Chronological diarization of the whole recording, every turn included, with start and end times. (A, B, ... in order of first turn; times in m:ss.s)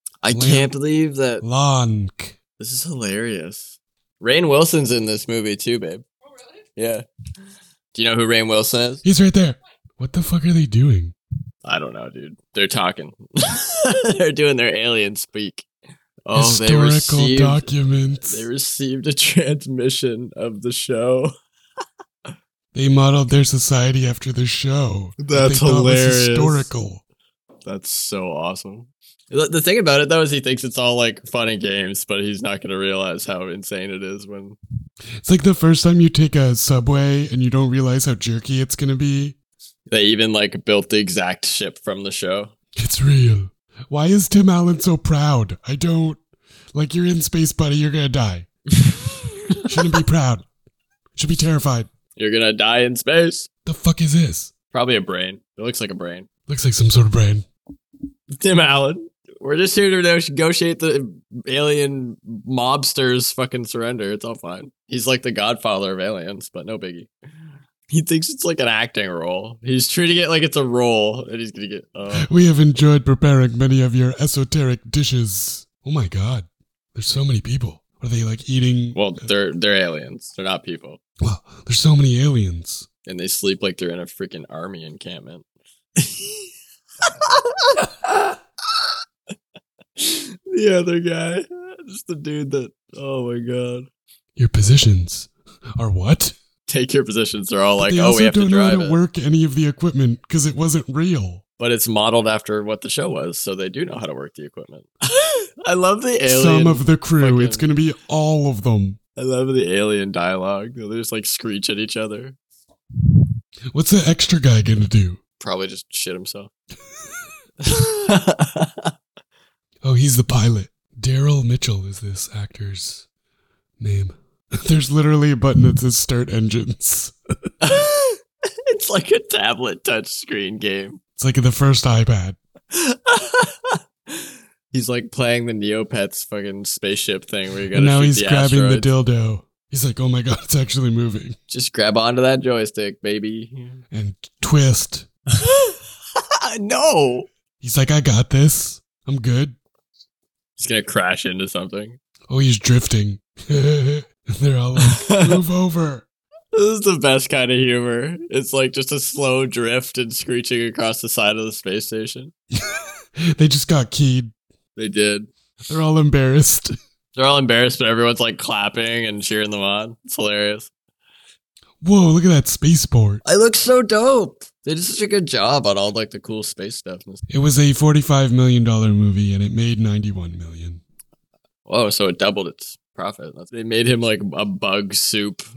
0:00.2-0:01.4 A
0:00.3-0:00.7 B
0:01.4-0:02.4 B
0:02.6-0:06.0 A
0:06.8-0:07.0 A
0:07.9-0:09.0 A
0:09.0-0:11.1 B
0:11.6-0:15.6 A
0:16.2-0:17.7 A
0:16.3-0:18.5 B
0:18.2-0:21.3 A
0:22.7-0:27.0 B
0:25.2-0:26.7 A
0:27.6-0:34.6 A
0:35.2-0:39.4 B
0:39.9-0:42.5 A
0:42.8-0:46.2 B
0:46.7-0:48.5 B
0:48.8-0:49.7 A
0:49.6-0:50.4 B
0:51.2-0:51.9 B
0:52.2-0:53.5 A
0:53.6-0:54.5 B
0:54.7-0:56.3 A
0:56.5-0:57.4 B
0:58.4-1:07.1 A
1:07.9-1:12.3 A
1:12.2-1:19.1 B
1:18.9-1:21.0 A
1:21.2-1:22.9 B
1:23.0-1:25.4 A
1:26.0-1:26.5 A
1:27.1-1:28.4 A
1:30.0-1:33.9 A
1:34.4-1:36.3 B
1:36.7-1:39.0 A
1:37.8-1:41.4 B
1:41.6-1:47.7 A
1:46.3-1:49.0 B
1:49.2-1:52.4 A
1:53.7-1:55.2 B
1:55.4-1:56.5 A
1:57.6-1:58.9 A
1:59.8-2:03.0 B
2:03.8-2:07.2 B
2:07.6-2:11.0 A
2:11.2-2:12.4 B
2:12.7-2:18.9 A
2:17.7-2:21.4 B
2:21.5-2:23.8 A
2:23.9-2:25.1 B
2:25.3-2:27.3 A
2:27.6-2:29.6 B
2:30.6-2:32.0 A
2:32.3-2:36.0 B
2:34.8-2:35.4 A
2:36.5-2:42.3 A
2:42.5-2:44.3 B
2:44.8-2:45.3 A
2:45.7-2:46.8 B
2:47.1-2:50.7 A
2:51.8-2:53.2 B
2:53.2-2:57.2 A
2:57.3-3:00.8 B
3:01.7-3:05.4 A